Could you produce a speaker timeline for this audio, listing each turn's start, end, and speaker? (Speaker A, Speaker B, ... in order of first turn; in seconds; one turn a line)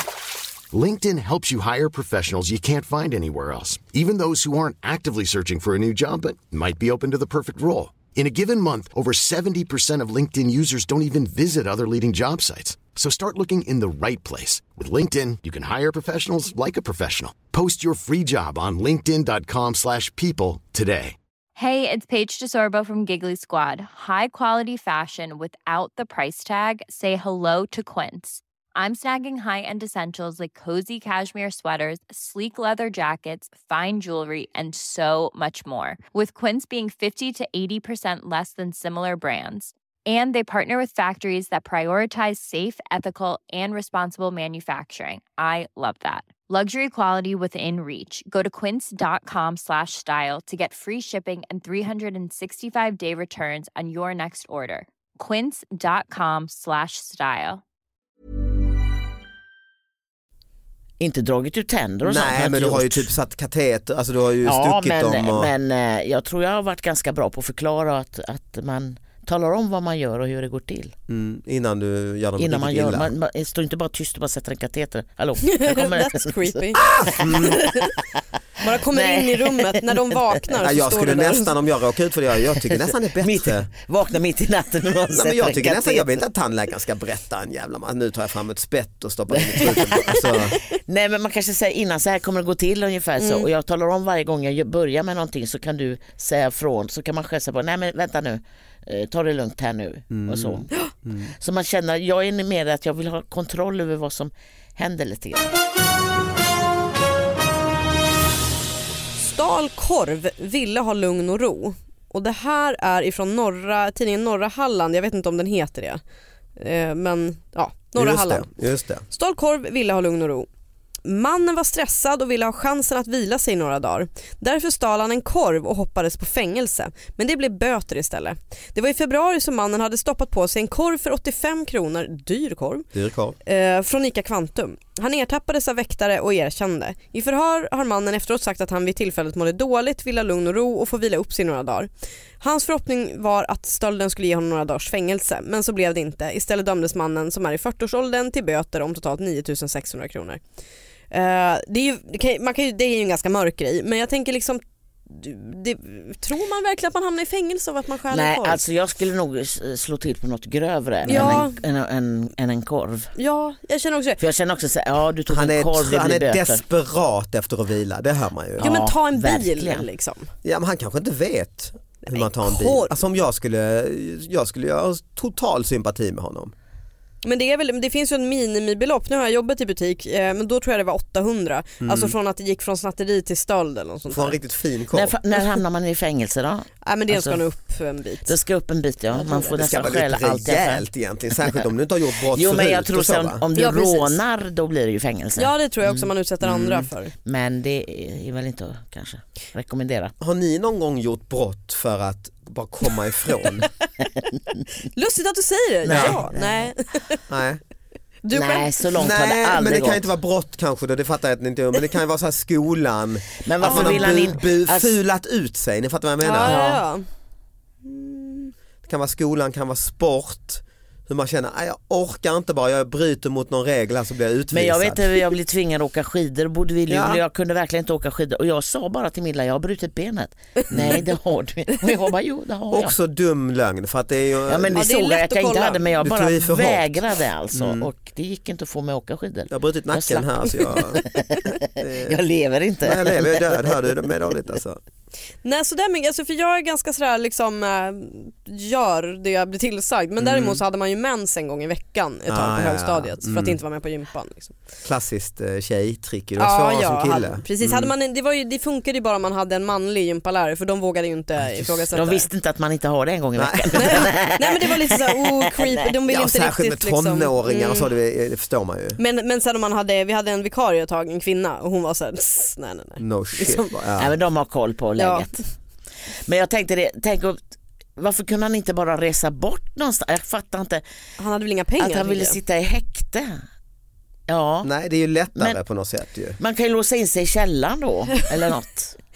Speaker A: 0.7-21.2
Speaker B: 21.6-57.6
Speaker C: 61.0-63.1
Speaker D: 62.0-65.5
Speaker C: 64.4-70.9
Speaker D: 71.1-73.1
Speaker C: 72.4-77.9
Speaker E: 75.5-77.9
Speaker D: 76.8-77.6
Speaker E: 78.6-81.5
Speaker C: 78.6-79.8
Speaker D: 80.6-83.7
Speaker C: 83.2-86.1
Speaker D: 85.1-90.6
Speaker C: 89.3-100.7
Speaker E: 93.2-93.5
Speaker D: 100.1-101.3
Speaker C: 101.4-105.5
Speaker E: 109.2-116.0
Speaker E: 116.6-118.5
Speaker D: 117.9-119.0
Speaker E: 119.1-120.5
Speaker E: 121.0-132.8
Speaker D: 132.9-133.4
Speaker E: 133.4-141.9
Speaker E: 142.4-150.4
Speaker E: 151.1-158.6
Speaker C: 158.1-163.1
Speaker E: 161.1-161.6
Speaker D: 161.1-161.4
Speaker E: 163.2-164.2
Speaker C: 164.2-166.6
Speaker D: 165.3-168.7
Speaker C: 168.6-169.8
Speaker E: 168.6-170.3
Speaker D: 170.4-176.5
Speaker E: 172.1-172.9
Speaker E: 177.2-184.4
Speaker D: 181.8-182.1
Speaker D: 184.1-185.2
Speaker C: 184.9-187.4
Speaker E: 186.8-188.4
Speaker C: 188.2-190.8
Speaker E: 189.1-189.6
Speaker D: 189.5-193.4
Speaker C: 192.3-196.1
Speaker E: 193.5-194.2
Speaker E: 195.4-197.1
Speaker D: 196.4-196.9
Speaker C: 197.2-200.1
Speaker D: 200.2-203.7
Speaker E: 204.9-207.2
Speaker C: 205.8-206.7
Speaker D: 205.9-206.3
Speaker D: 207.3-207.6
Speaker E: 208.2-208.9
Speaker C: 208.3-210.0
Speaker D: 208.9-216.6
Speaker C: 213.4-214.9
Speaker E: 213.6-214.3
Speaker E: 216.2-217.1
Speaker C: 216.4-216.8
Speaker E: 217.8-218.5
Speaker D: 218.8-225.2
Speaker C: 224.5-232.9
Speaker D: 226.9-227.2
Speaker D: 230.7-231.0
Speaker D: 232.7-234.9
Speaker C: 234.5-243.9
Speaker E: 234.7-235.9
Speaker D: 236.0-237.0
Speaker D: 237.5-237.9
Speaker D: 239.5-241.0
Speaker D: 241.8-242.2
Speaker D: 242.8-244.8
Speaker E: 245.4-254.6
Speaker D: 250.2-250.6
Speaker D: 252.3-253.6
Speaker D: 254.8-257.9
Speaker E: 256.4-262.3
Speaker D: 261.4-261.9
Speaker C: 261.9-265.7
Speaker D: 263.4-264.1
Speaker E: 263.7-267.9
Speaker D: 266.1-269.0
Speaker E: 269.0-273.7
Speaker D: 273.0-274.1
Speaker C: 274.0-275.3
Speaker E: 275.0-275.3
Speaker C: 276.2-277.4
Speaker C: 278.0-280.8
Speaker E: 281.2-282.4
Speaker C: 281.8-283.4
Speaker C: 284.3-284.7
Speaker D: 284.6-286.4
Speaker C: 286.4-288.9